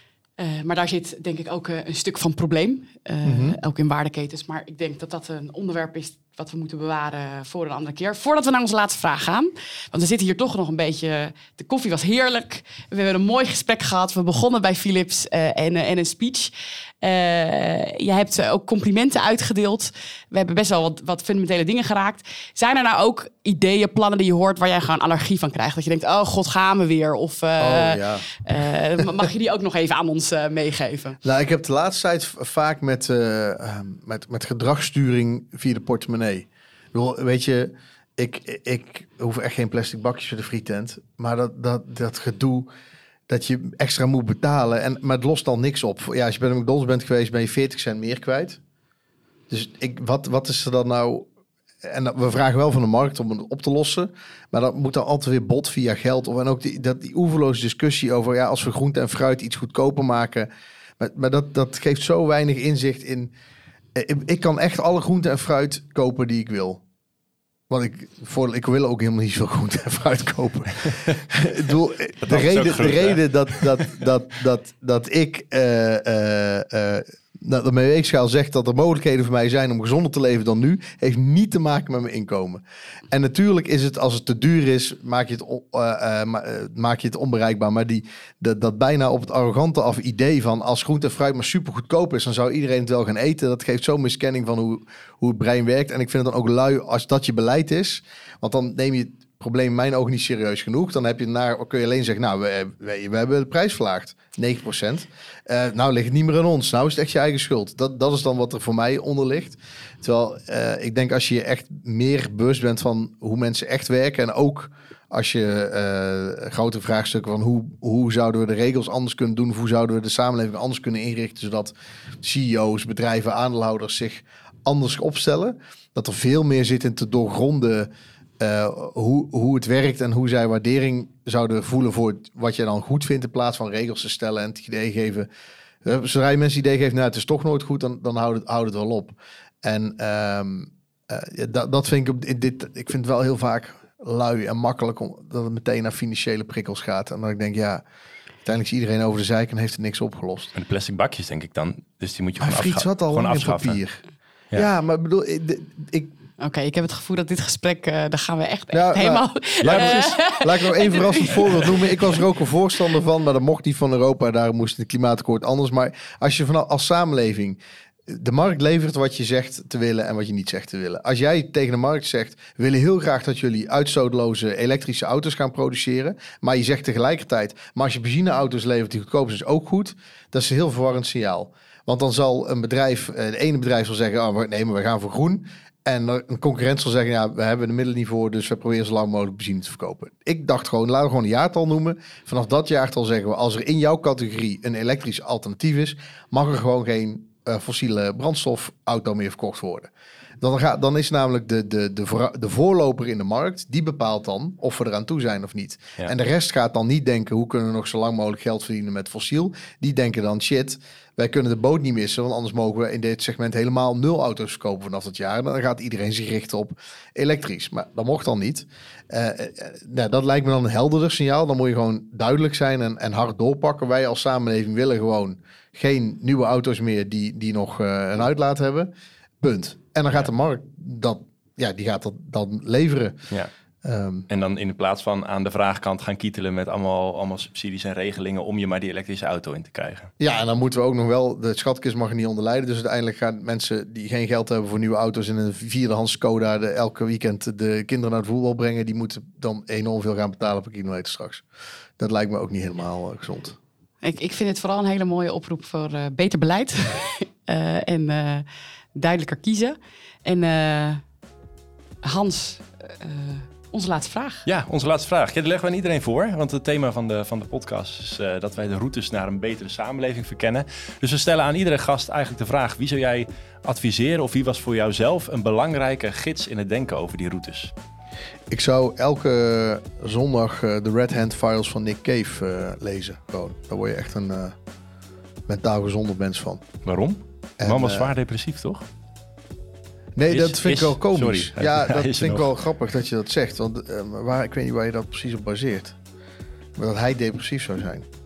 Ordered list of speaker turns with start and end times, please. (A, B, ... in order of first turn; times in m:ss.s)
0:00.4-0:31.2 A
0:03.2-0:03.6 B
0:27.6-0:28.3 B
0:31.2-0:42.7 B
0:43.3-0:48.6 B
0:49.5-0:51.3 B
0:51.8-1:03.3 B
1:03.9-1:06.8 B
1:07.7-2:15.3 B
1:12.2-1:14.0 C
2:15.8-2:27.8 B
2:28.4-2:30.5 B
2:30.5-2:33.8 C
2:32.4-2:34.0 B
2:34.5-2:36.1 B
2:36.4-2:42.3 A
2:38.7-3:53.2 B
2:39.6-2:40.0 C
3:53.8-3:54.3 B
3:54.3-4:00.1 C
4:00.2-4:11.4 B
4:12.0-4:13.6 B
4:14.0-4:21.0 A
4:22.0-4:24.4 A
4:24.4-4:37.7 C
4:38.5-4:44.6 B
4:45.5-4:46.6 B
4:46.8-4:48.8 C
4:47.6-4:48.1 B
4:50.2-4:56.0 B
4:50.3-4:52.5 C
4:56.8-4:58.1 B